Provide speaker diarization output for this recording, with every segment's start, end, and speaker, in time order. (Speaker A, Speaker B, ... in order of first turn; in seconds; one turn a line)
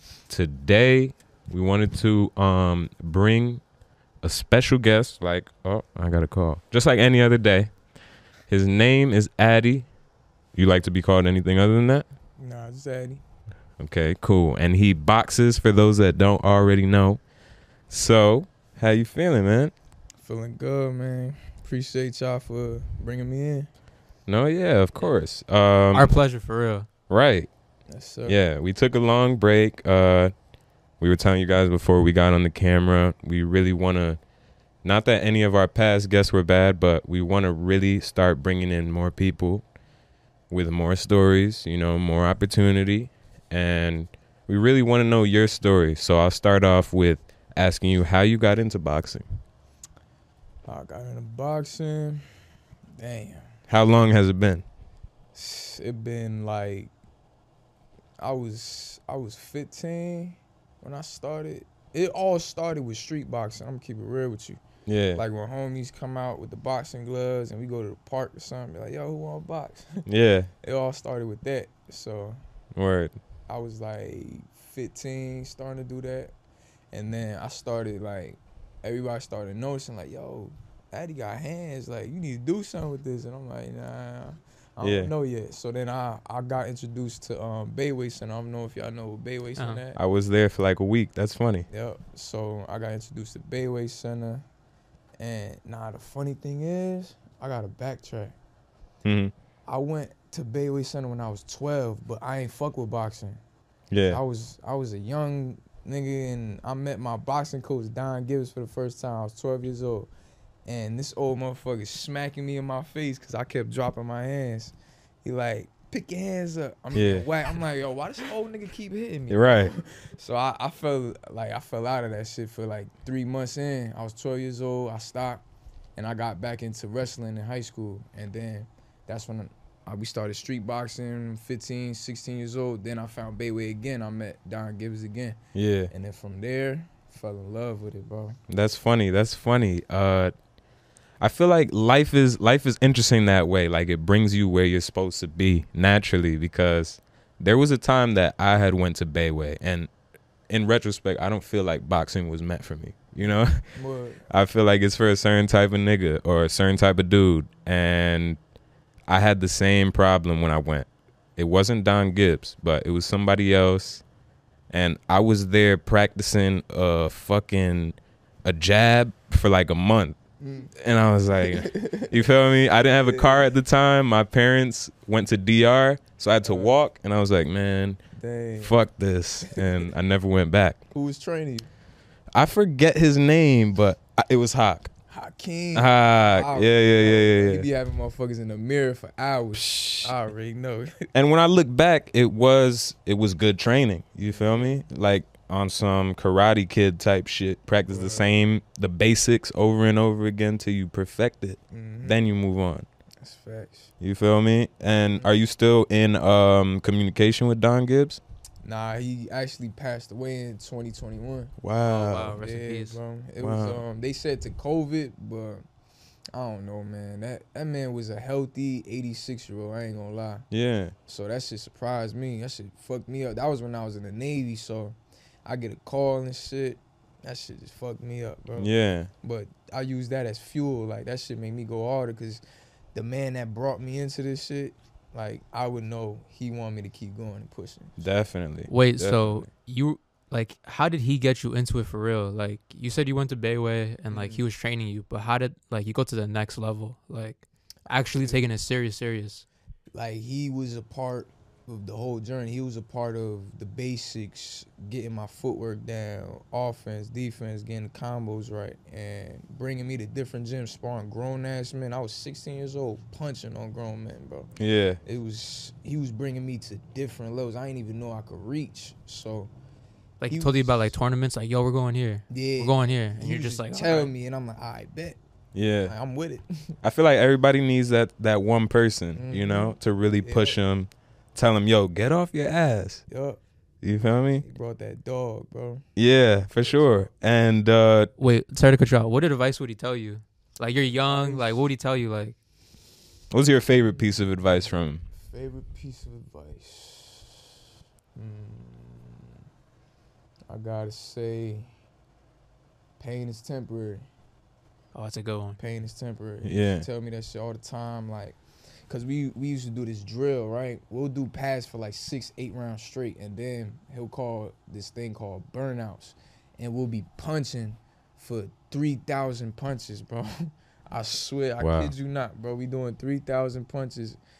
Speaker A: 0.3-3.6
Speaker A: 4.2-7.7
Speaker A: 8.5-9.9
Speaker A: 10.5-12.1
Speaker B: 12.4-13.2
Speaker A: 13.8-17.2
Speaker A: 17.9-19.7
Speaker B: 20.2-23.7
Speaker A: 24.3-26.1
Speaker C: 25.9-26.9
Speaker A: 27.1-27.5
Speaker B: 27.9-28.4
Speaker A: 28.2-30.3
Speaker A: 31.0-34.2
Speaker A: 34.8-39.6
Speaker A: 40.5-49.2
Speaker B: 50.6-52.3
Speaker B: 53.0-53.5
Speaker A: 53.7-54.6
Speaker B: 55.3-56.9
Speaker B: 58.2-64.6
Speaker A: 64.9-65.2
Speaker B: 65.1-70.0
Speaker A: 70.0-70.5
Speaker B: 70.6-72.4
Speaker A: 72.7-73.2
Speaker B: 73.5-76.3
Speaker B: 76.9-90.0
Speaker A: 84.8-85.1
Speaker C: 89.6-89.8
Speaker A: 89.9-91.7
Speaker B: 91.7-94.4
Speaker B: 95.2-98.3
Speaker A: 99.0-99.3
Speaker B: 99.7-103.4
Speaker A: 103.9-104.2
Speaker B: 104.1-110.1
Speaker B: 110.6-135.4
Speaker A: 116.9-117.3
Speaker A: 119.3-119.7
Speaker A: 135.5-135.9
Speaker B: 135.9-138.4
Speaker A: 138.5-140.3
Speaker A: 141.2-149.9
Speaker A: 150.5-153.7
Speaker B: 153.7-154.2
Speaker A: 154.3-158.4
Speaker A: 159.1-164.0
Speaker A: 164.7-170.2
Speaker B: 170.4-170.7
Speaker A: 170.7-178.0
Speaker B: 171.4-172.3
Speaker B: 172.9-173.5
Speaker B: 176.4-176.7
Speaker B: 178.1-178.8
Speaker A: 178.6-180.8
Speaker B: 179.4-179.9
Speaker B: 180.9-181.7
Speaker A: 182.3-184.9
Speaker B: 185.1-191.1
Speaker A: 185.7-187.7
Speaker A: 189.5-190.1
Speaker A: 191.1-202.9
Speaker B: 194.3-194.8
Speaker B: 197.9-198.3
Speaker B: 201.7-202.2
Speaker B: 203.2-203.9
Speaker A: 204.0-208.2
Speaker B: 208.6-215.6
Speaker A: 211.6-212.4
Speaker C: 211.8-213.0
Speaker A: 213.4-213.8
Speaker B: 216.3-220.5
Speaker A: 220.5-220.9
Speaker B: 221.1-232.4
Speaker A: 228.6-229.1
Speaker B: 232.9-238.0
Speaker A: 238.0-239.5
Speaker C: 238.7-249.4
Speaker B: 244.1-244.4
Speaker B: 248.0-248.4
Speaker B: 249.9-264.5
Speaker A: 264.6-265.0
Speaker B: 265.0-269.5
Speaker C: 270.2-274.1
Speaker B: 270.3-270.9
Speaker B: 272.3-275.2
Speaker A: 275.5-275.9
Speaker B: 275.8-276.8
Speaker A: 276.8-283.0
Speaker B: 279.1-280.6
Speaker B: 283.1-283.4
Speaker A: 283.8-284.4
Speaker B: 284.4-285.8
Speaker A: 285.9-288.1
Speaker B: 286.6-287.1
Speaker C: 288.2-292.4
Speaker B: 291.0-291.6
Speaker A: 293.3-295.0
Speaker B: 293.9-297.5
Speaker B: 298.1-299.3
Speaker B: 300.5-301.7
Speaker B: 303.0-304.1
Speaker C: 304.9-305.6
Speaker B: 305.6-324.2
Speaker A: 306.4-306.9
Speaker A: 321.6-321.9